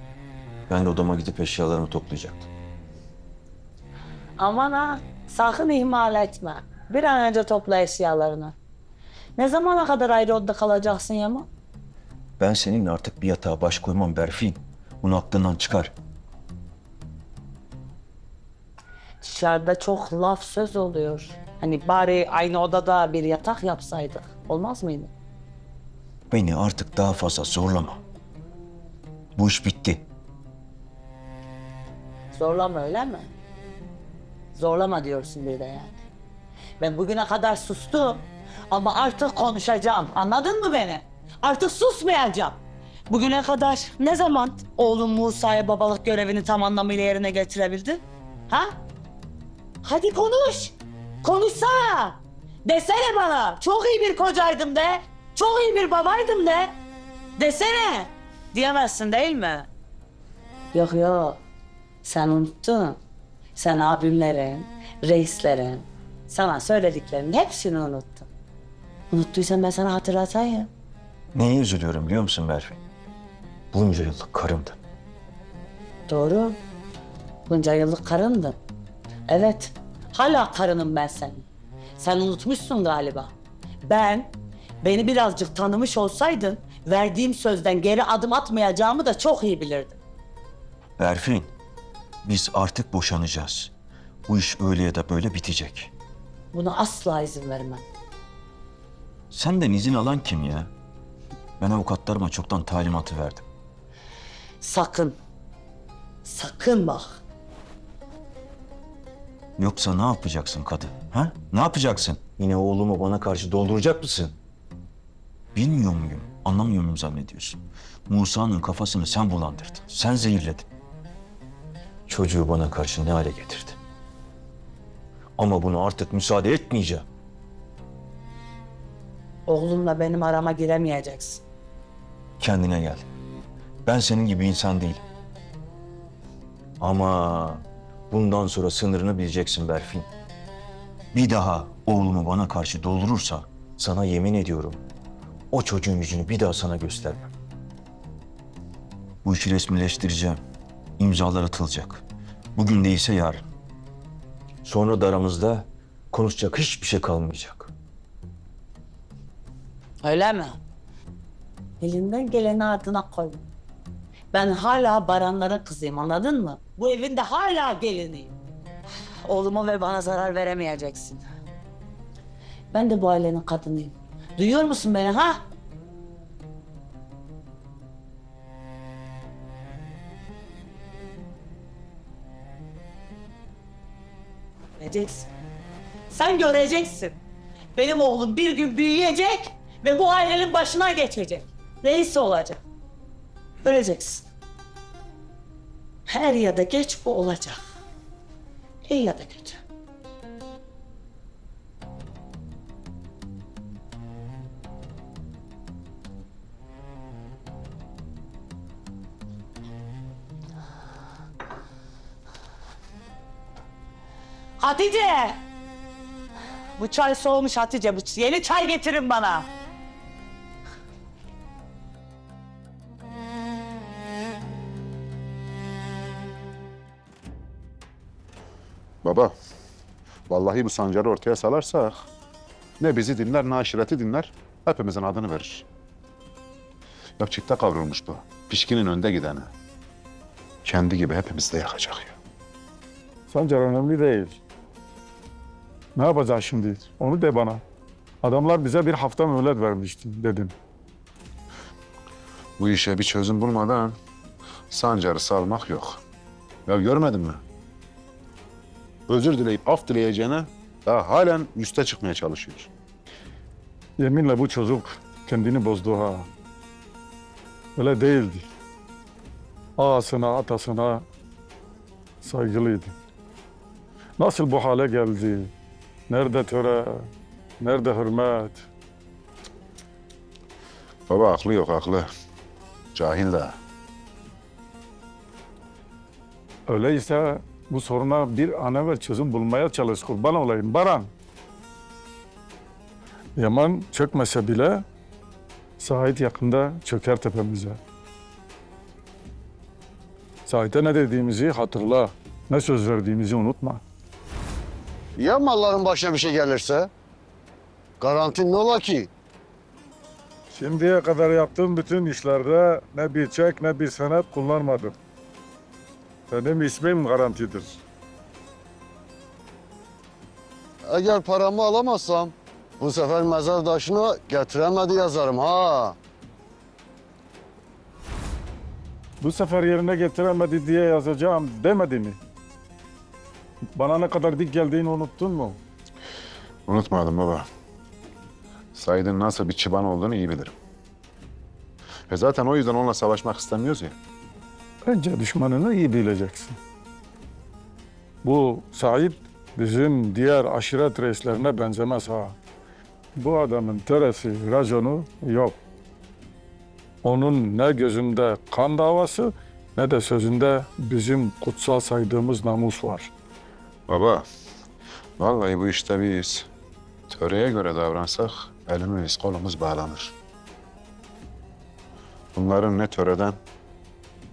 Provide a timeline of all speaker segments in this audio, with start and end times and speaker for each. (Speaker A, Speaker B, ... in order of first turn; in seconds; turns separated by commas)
Speaker A: 0.7-2.5, Speaker B: 4.4-8.6, Speaker B: 9.4-11.5, Speaker A: 12.4-15.9, Speaker B: 19.2-25.1, Speaker A: 26.3-28.0, Speaker A: 29.4-30.1, Speaker B: 32.3-33.3, Speaker B: 34.5-35.9, Speaker B: 36.8-42.6, Speaker B: 43.1-48.7, Speaker B: 49.8-56.7, Speaker B: 57.4-59.7, Speaker B: 60.7-61.4, Speaker B: 62.0-63.0, Speaker B: 63.5-68.3, Speaker B: 69.1-70.7, Speaker A: 71.3-72.8, Speaker A: 73.7-74.8, Speaker B: 76.1-76.5, Speaker B: 77.5-78.6, Speaker B: 79.3-81.5, Speaker B: 82.0-83.3, Speaker B: 83.8-90.0, Speaker A: 91.0-91.5, Speaker A: 92.2-93.7, Speaker A: 94.3-95.9, Speaker B: 96.5-97.8, Speaker A: 99.3-100.7, Speaker A: 101.6-103.5, Speaker B: 104.6-105.1, Speaker B: 106.2-107.2, Speaker A: 109.6-114.4, Speaker A: 115.5-120.7, Speaker A: 122.1-123.8, Speaker A: 125.4-127.0, Speaker B: 129.5-131.4, Speaker A: 132.4-133.1, Speaker A: 133.8-135.0, Speaker A: 136.8-140.1, Speaker A: 141.1-144.8, Speaker A: 145.5-147.3, Speaker A: 149.2-150.4, Speaker A: 151.0-152.0, Speaker A: 152.5-153.4, Speaker A: 154.6-157.7, Speaker B: 160.0-160.6, Speaker B: 161.8-163.4, Speaker B: 164.3-168.3, Speaker B: 169.2-171.2, Speaker B: 172.7-175.4, Speaker B: 184.8-185.3, Speaker B: 186.1-187.2, Speaker B: 187.8-192.6, Speaker B: 193.6-194.3, Speaker B: 196.1-197.6, Speaker B: 198.8-199.6, Speaker B: 214.6-215.4, Speaker B: 216.8-219.5, Speaker C: 229.0-229.3, Speaker C: 230.3-231.9, Speaker C: 232.8-235.7, Speaker C: 237.2-239.5, Speaker C: 240.6-242.2, Speaker D: 243.3-244.4, Speaker D: 245.9-247.6, Speaker D: 248.2-250.5, Speaker C: 252.6-253.9, Speaker C: 254.7-256.0, Speaker C: 256.7-257.4, Speaker C: 259.1-262.7, Speaker D: 264.0-266.3, Speaker D: 267.8-268.5, Speaker D: 269.8-271.0, Speaker D: 272.2-272.9, Speaker D: 274.2-275.5, Speaker D: 276.1-277.1, Speaker D: 277.6-278.6, Speaker C: 281.1-282.1, Speaker C: 282.9-283.5, Speaker D: 286.7-291.1, Speaker D: 293.4-294.8, Speaker D: 295.8-297.8, Speaker D: 300.4-303.8, Speaker E: 305.2-306.9, Speaker E: 308.0-309.1, Speaker D: 310.5-314.9, Speaker D: 316.3-317.8, Speaker E: 320.8-326.0, Speaker D: 329.2-332.2, Speaker D: 333.7-335.6, Speaker C: 336.7-337.4, Speaker C: 338.7-340.5, Speaker C: 342.1-343.9, Speaker D: 344.8-346.6, Speaker D: 348.2-352.4, Speaker D: 353.1-355.6, Speaker D: 357.0-363.1, Speaker C: 363.9-364.2, Speaker C: 365.2-366.5, Speaker C: 367.1-370.1, Speaker C: 372.3-373.4